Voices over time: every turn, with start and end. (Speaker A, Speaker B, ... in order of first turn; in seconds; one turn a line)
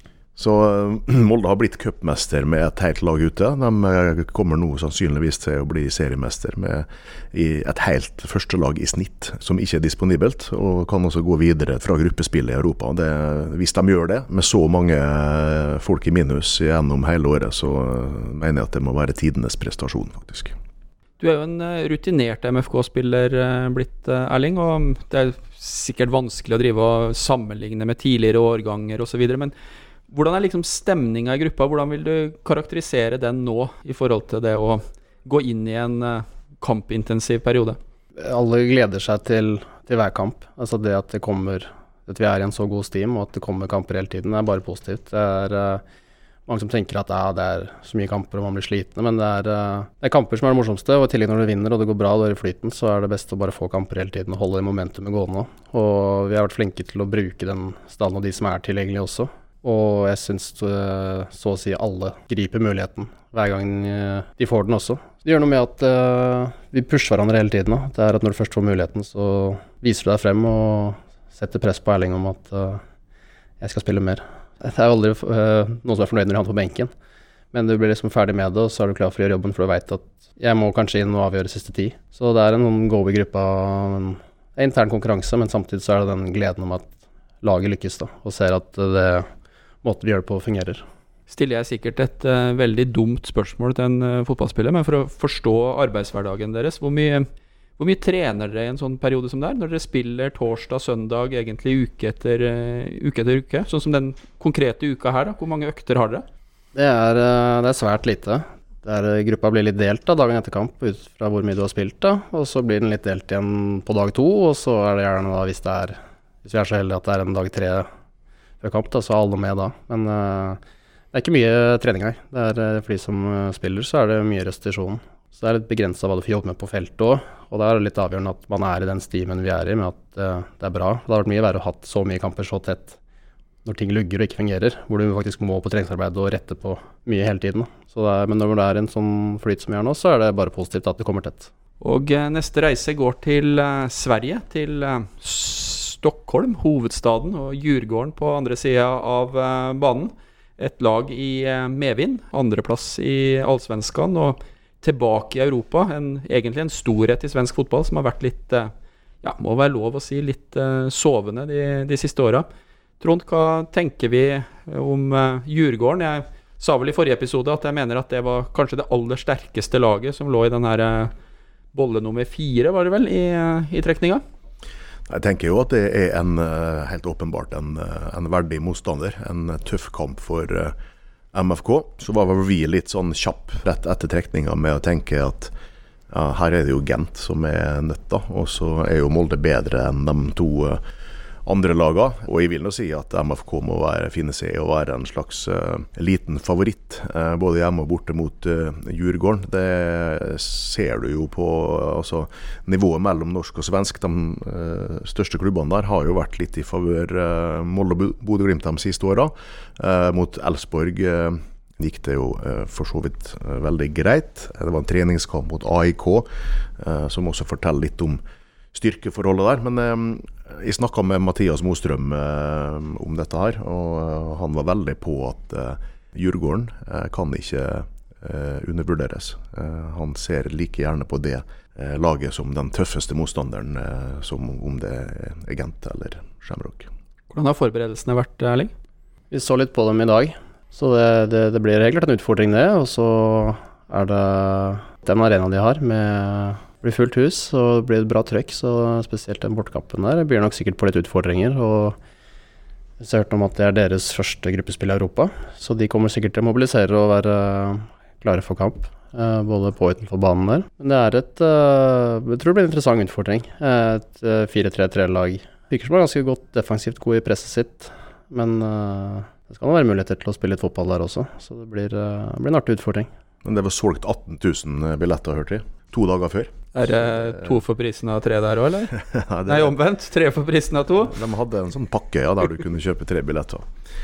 Speaker A: 0.4-20.6
Speaker B: 21.2-29.5
Speaker B: 30.1-37.8
Speaker C: 38.2-45.8
Speaker C: 46.5-72.8
Speaker C: 73.6-76.9
Speaker C: 77.5-89.3
Speaker C: 89.8-90.8
Speaker B: 91.3-97.3
Speaker B: 97.8-106.2
Speaker C: 106.7-117.9
Speaker C: 118.6-120.6
Speaker C: 121.1-133.0
Speaker C: 133.7-141.5
Speaker B: 141.8-158.7
Speaker B: 159.2-162.5
Speaker B: 163.0-171.1
Speaker B: 171.7-174.2
Speaker A: 175.1-180.8
Speaker A: 181.3-185.5
Speaker A: 186.1-190.8
Speaker A: 191.4-218.2
Speaker A: 218.7-236.9
Speaker B: 237.3-238.7
Speaker C: 239.3-252.0
Speaker C: 253.0-273.1
Speaker A: 273.4-277.6
Speaker B: 276.7-281.2
Speaker A: 279.1-279.7
Speaker A: 281.1-283.7